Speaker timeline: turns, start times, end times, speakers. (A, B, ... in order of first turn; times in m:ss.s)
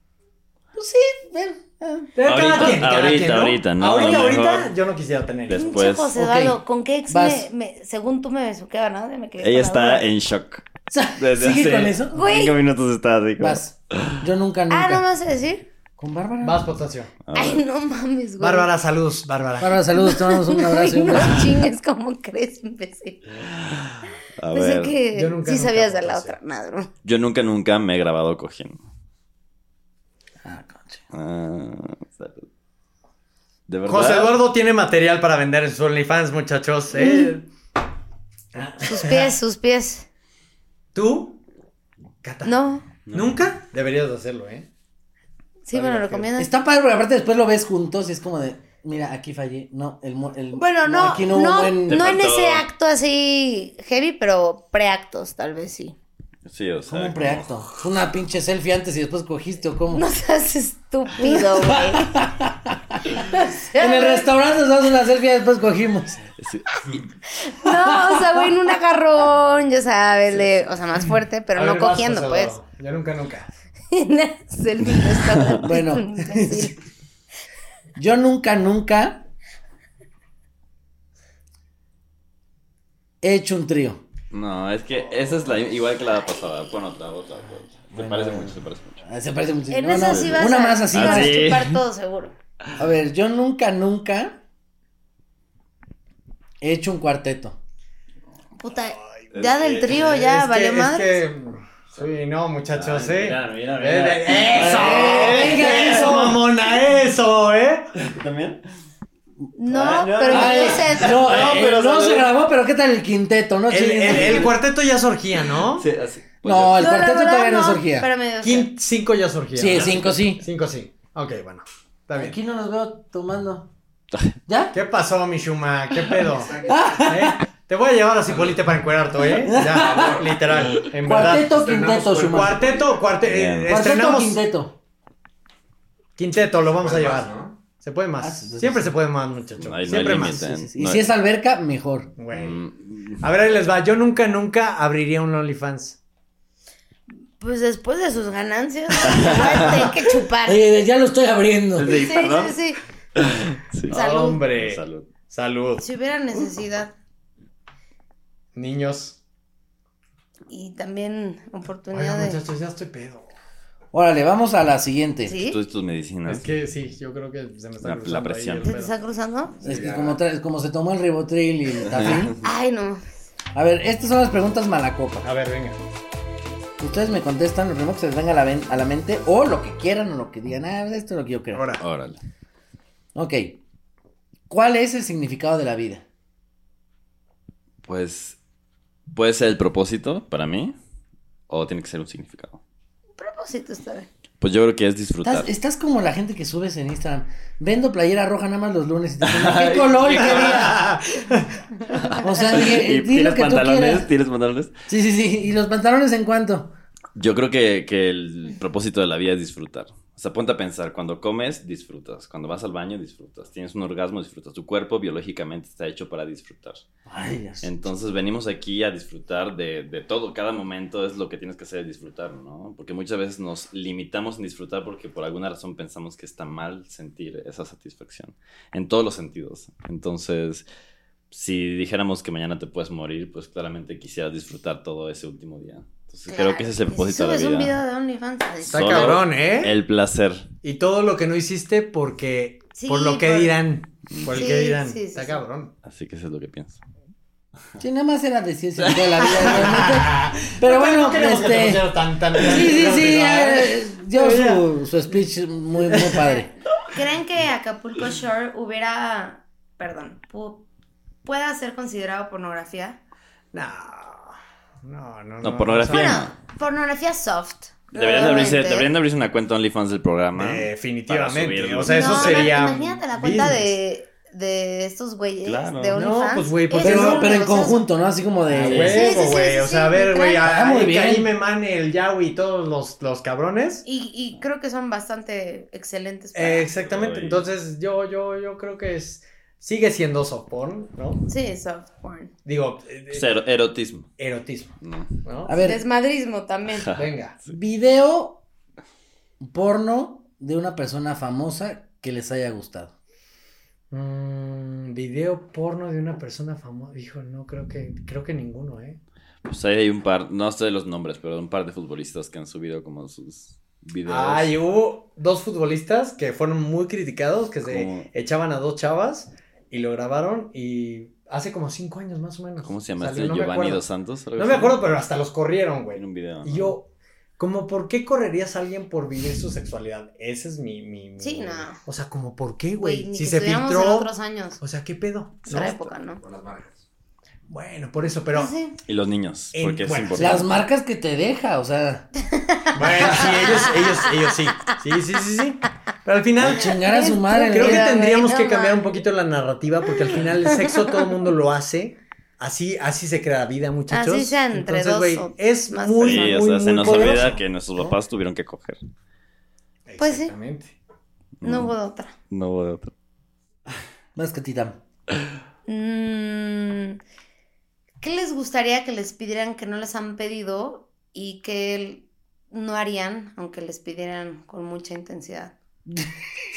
0:00.8-0:02.1 A
0:02.2-0:05.8 B
0:02.2-0:04.7 C
0:05.5-0:06.2 C
0:05.5-0:10.1 D
0:06.2-0:07.5 A
0:09.4-0:10.7 C
0:10.9-0:12.2 A
0:11.2-0:14.2 C
0:12.1-0:12.6 D
0:13.4-0:15.0 A
0:14.7-0:15.7 D
0:16.0-0:16.7 A
0:16.4-0:17.1 B
0:17.2-0:17.6 C
0:17.4-0:18.7 D
0:18.4-0:19.8 B
0:19.6-0:21.5 A
0:20.0-0:23.2 D
0:23.4-0:25.0 C
0:24.5-0:26.9 D
0:25.1-0:26.4 B
0:27.0-0:28.8 C
0:30.4-0:31.0 A
0:31.1-0:32.4 C
0:33.7-0:34.4 C
0:33.9-0:37.5 B
0:37.0-0:37.3 D
0:38.5-0:39.4 B
0:38.8-0:40.1 D
0:40.9-0:41.4 B
0:42.2-0:42.6 B
0:42.4-0:42.9 D
0:43.1-0:43.3 C
0:43.1-0:44.7 B
0:45.6-0:46.5 D
0:45.7-0:46.3 B
0:46.4-0:52.0 A
0:50.6-0:56.0 D
0:51.9-0:52.7 C
0:56.4-0:57.6 C
0:56.9-1:00.0 A
0:59.9-1:02.2 D
1:01.2-1:06.2 A
1:03.2-1:04.3 D
1:06.4-1:07.1 C
1:07.3-1:12.5 D
1:07.7-1:08.4 A
1:11.5-1:13.5 B
1:13.9-1:16.8 D
1:14.9-1:15.7 C
1:15.6-1:16.7 A
1:18.0-1:19.2 A
1:23.2-1:24.0 A
1:24.3-1:29.0 C
1:27.9-1:31.6 A
1:29.7-1:32.3 D
1:30.0-1:31.8 C
1:32.8-1:34.4 A
1:36.6-1:37.6 A
1:38.6-1:41.2 D
1:39.3-1:40.0 C
1:39.9-1:47.9 B
1:42.7-1:46.4 C
1:44.5-1:46.4 A
1:48.0-1:48.6 C
1:49.6-1:51.4 D
1:49.7-1:52.3 C
1:50.3-1:54.5 A
1:53.7-1:55.9 B
1:54.1-1:54.5 C
1:55.6-1:56.8 C
1:56.4-1:58.1 A
1:56.8-1:58.7 D
1:58.4-2:02.4 B
1:59.6-2:00.4 A
1:59.7-2:00.3 C
2:02.2-2:03.7 A
2:04.5-2:04.8 A
2:04.7-2:14.4 B
2:06.4-2:06.8 E
2:06.7-2:07.4 A
2:09.4-2:12.7 A
2:09.6-2:10.8 E
2:11.5-2:12.9 E
2:13.2-2:13.7 C
2:13.7-2:14.8 A
2:16.2-2:20.4 B
2:16.8-2:17.5 E
2:18.2-2:18.9 A
2:19.6-2:21.1 C
2:20.2-2:22.1 A
2:22.2-2:22.6 B
2:22.3-2:23.2 C
2:23.2-2:26.0 B
2:27.4-2:30.6 D
2:29.0-2:29.9 C
2:30.4-2:31.9 A
2:31.8-2:32.6 C
2:31.9-2:32.8 D
2:33.2-2:35.1 C
2:33.9-2:35.9 B
2:33.9-2:34.4 D
2:35.8-2:36.9 D
2:38.5-2:39.2 B
2:40.5-2:42.4 D
2:41.9-2:43.3 B
2:43.9-2:45.4 A
2:45.3-2:45.6 D
2:45.4-2:46.5 C
2:46.3-2:49.0 B
2:47.8-2:48.7 C
2:48.6-2:49.6 D
2:49.6-2:50.2 E
2:49.6-2:52.4 A
2:51.9-2:52.4 C
2:52.4-2:53.0 D
2:53.5-2:55.3 A
2:55.2-2:55.8 B
2:56.8-3:01.7 A
3:01.5-3:01.8 B
3:01.8-3:02.2 C
3:03.2-3:03.6 A
3:04.5-3:06.0 A
3:07.8-3:08.4 C
3:09.1-3:10.8 C
3:11.5-3:12.6 C
3:13.2-3:14.1 D
3:14.4-3:15.5 C
3:15.2-3:20.8 A
3:19.2-3:20.9 C
3:20.1-3:21.6 B
3:21.9-3:24.7 C
3:22.2-3:24.1 A
3:24.9-3:26.7 A
3:27.2-3:36.8 C
3:37.1-3:37.7 A
3:37.6-3:50.6 C
3:51.3-3:57.8 C
3:56.3-3:59.1 D
3:58.6-4:00.5 C
3:58.7-3:59.8 B
4:00.6-4:05.7 B
4:02.8-4:03.5 D
4:04.1-4:04.4 C
4:04.3-4:05.4 D
4:05.8-4:06.8 C
4:07.8-4:11.9 A
4:08.8-4:09.4 C
4:09.2-4:14.6 B
4:12.4-4:16.5 A
4:15.9-4:16.3 B
4:16.9-4:20.6 D
4:21.2-4:23.0 D
4:23.5-4:26.2 B
4:25.4-4:26.3 C
4:25.9-4:28.9 D
4:27.9-4:32.7 C
4:28.1-4:28.5 B
4:30.4-4:33.8 B
4:31.9-4:37.8 D
4:35.4-4:36.1 C
4:35.9-4:37.4 B
4:36.8-4:39.0 A
4:38.5-4:43.8 B
4:38.6-4:39.1 C
4:38.8-4:40.5 D
4:40.4-4:41.3 A
4:43.9-4:46.7 D
4:46.3-4:51.3 B
4:46.8-4:47.5 C
4:51.3-4:52.3 D
4:52.4-4:53.2 B
4:53.1-4:54.1 C
4:54.2-4:54.7 B
4:54.8-4:55.2 C
4:55.2-4:55.6 B
4:55.5-4:55.8 A
4:55.5-4:57.0 D
4:56.7-4:57.6 C
4:56.9-4:57.4 B
4:57.5-4:58.4 A
4:59.4-5:02.9 A
5:03.9-5:09.0 B
5:09.4-5:14.5 C
5:14.1-5:23.8 B
5:17.6-5:18.1 C
5:22.6-5:24.8 C
5:24.4-5:35.9 B
5:26.0-5:26.8 C
5:31.2-5:31.8 D
5:32.8-5:34.6 D
5:35.5-5:36.2 D
5:36.2-5:36.8 E
5:37.5-5:38.5 B
5:38.3-5:38.8 D
5:38.9-5:40.6 C
5:39.5-5:40.5 B
5:40.2-5:42.1 A
5:42.2-5:44.0 D
5:42.8-5:46.8 B
5:46.4-5:47.9 A
5:46.5-5:49.0 D
5:47.4-5:57.4 B
5:53.9-5:56.4 D
5:56.0-5:58.8 C
5:59.9-6:00.8 B
6:00.0-6:00.3 D
6:01.4-6:01.8 C
6:01.4-6:02.1 D
6:02.3-6:02.9 C
6:04.2-6:04.8 A
6:05.7-6:07.0 D
6:08.0-6:15.5 D